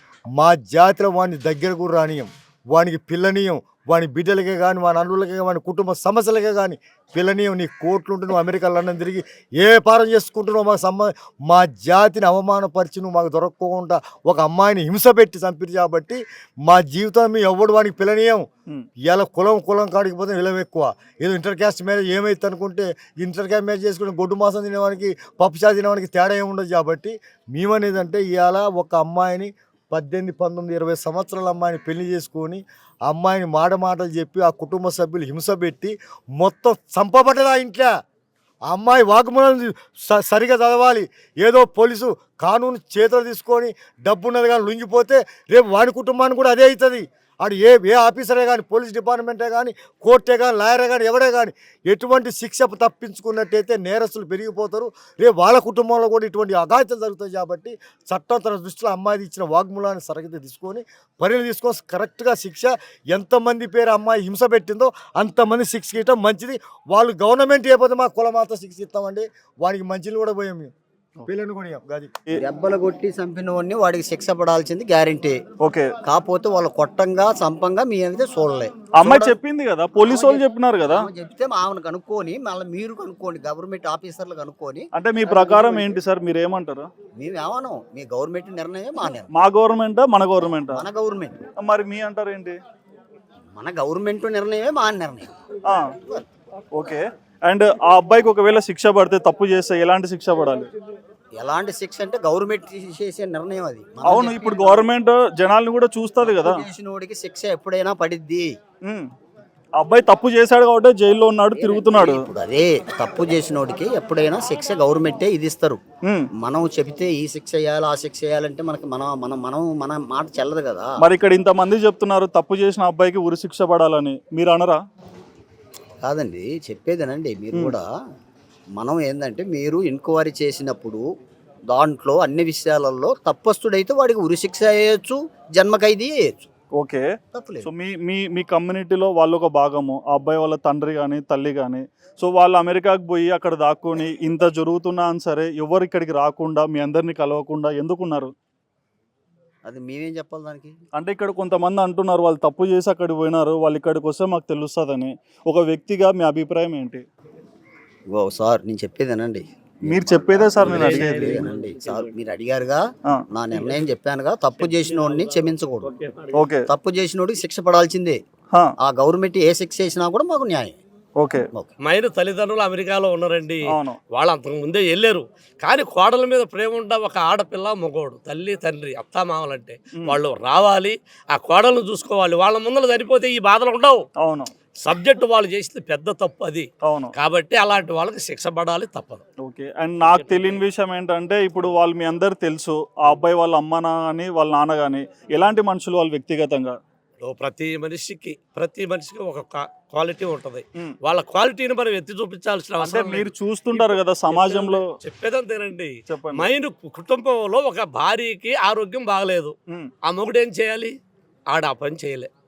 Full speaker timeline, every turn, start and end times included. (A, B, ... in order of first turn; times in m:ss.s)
0:00.4-0:18.5 A
0:19.0-0:37.9 A
0:38.7-1:10.7 A
1:11.2-1:12.1 A
1:12.4-1:15.4 B
1:15.6-1:15.9 C
1:16.0-1:19.3 B
1:19.0-1:21.1 C
1:20.0-1:25.9 B
1:24.9-1:26.9 C
1:27.2-1:29.3 B
1:29.3-1:30.8 C
1:30.7-1:31.3 B
1:31.6-1:32.6 C
1:33.5-1:35.3 B
1:35.6-1:35.9 C
1:35.9-1:36.2 B
1:36.7-1:40.7 C
1:41.4-1:44.9 B
1:44.0-1:46.6 C
1:46.2-1:48.6 B
1:48.8-1:49.1 C
1:49.8-1:52.2 C
1:51.5-1:55.8 B
1:56.0-1:56.3 C
1:56.4-2:00.9 B
2:01.0-2:04.8 C
2:06.0-2:07.8 B
2:08.8-2:11.0 B
2:11.7-2:16.5 B
2:16.8-2:17.0 C
2:17.3-2:17.7 B
2:17.6-2:28.3 C
2:29.6-2:30.7 B
2:30.9-2:37.0 C
2:38.1-2:45.9 B
2:39.9-2:41.5 C
2:44.6-2:46.4 D
2:46.3-2:46.6 C
2:46.7-2:48.2 B
2:48.8-2:50.8 B
2:51.2-2:51.4 C
2:51.8-3:04.0 D
2:53.7-2:54.0 C
3:04.2-3:04.5 C
3:04.8-3:09.2 D
3:06.8-3:07.1 C
3:09.4-3:16.8 C
3:10.0-3:10.6 D
3:17.2-3:31.0 D
3:22.8-3:24.9 C
3:26.1-3:26.5 C
3:31.5-3:32.3 D